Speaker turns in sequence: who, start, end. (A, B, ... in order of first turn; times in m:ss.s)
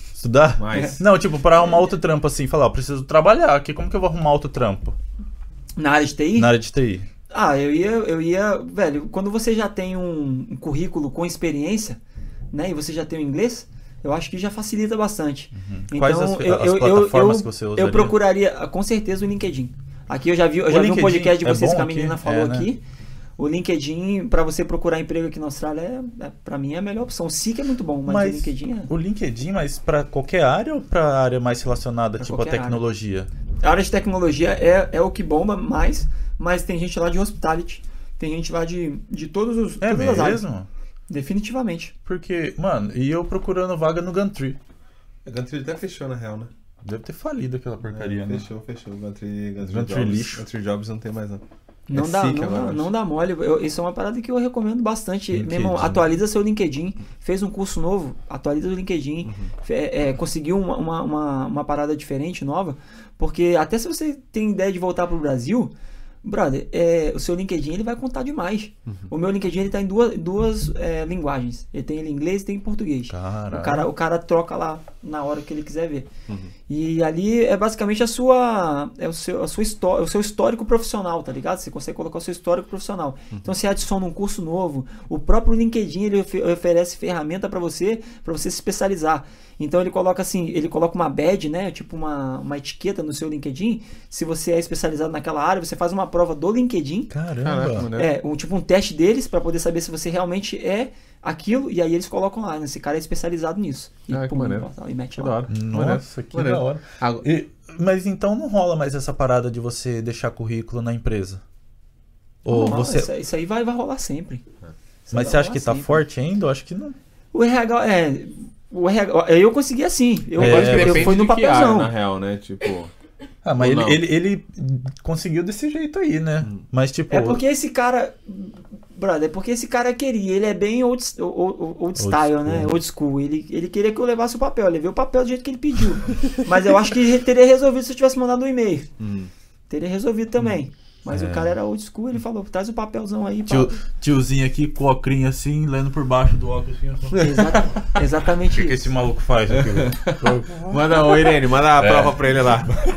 0:00.2-0:05.0 A
0:00.6-0:01.0 B
0:00.7-0:01.0 C
0:05.8-0:06.5 C
0:06.4-0:07.1 A
0:07.3-0:12.0 C
0:12.5-0:22.8 C
0:15.5-0:18.2 A
0:20.7-0:22.7 A
0:23.4-0:28.9 C
0:28.0-0:33.3 A
0:32.2-0:32.8 C
0:33.6-0:40.4 C
0:39.8-0:40.7 A
0:41.1-0:41.9 C
0:42.0-0:44.6 A
0:45.2-0:46.5 B
0:46.8-0:48.4 A
0:47.8-0:51.4 B
0:49.6-0:50.4 A
0:51.9-1:16.1 C
0:52.0-0:52.9 B
0:52.0-0:52.3 A
0:55.3-0:56.1 A
0:59.2-0:59.5 B
1:13.1-1:13.9 A
1:16.7-1:37.1 C
1:37.1-1:37.9 A
1:37.4-1:38.1 B
1:37.9-1:45.4 C
1:44.1-1:47.2 B
1:45.5-1:51.4 A
1:52.4-1:53.1 A
1:52.5-1:54.4 C
1:55.1-1:55.9 C
1:55.1-1:57.0 A
1:57.3-2:01.9 C
2:00.4-2:01.2 A
2:00.4-2:02.9 B
2:03.4-2:07.4 A
2:03.6-2:04.0 B
2:07.1-2:18.9 C
2:12.0-2:12.7 A
2:19.0-2:19.3 B
2:19.7-2:23.8 C
2:21.1-2:21.5 A
2:23.5-2:27.4 A
2:27.2-2:28.9 C
2:28.5-2:31.2 A
2:29.6-2:32.8 B
2:31.8-2:32.3 A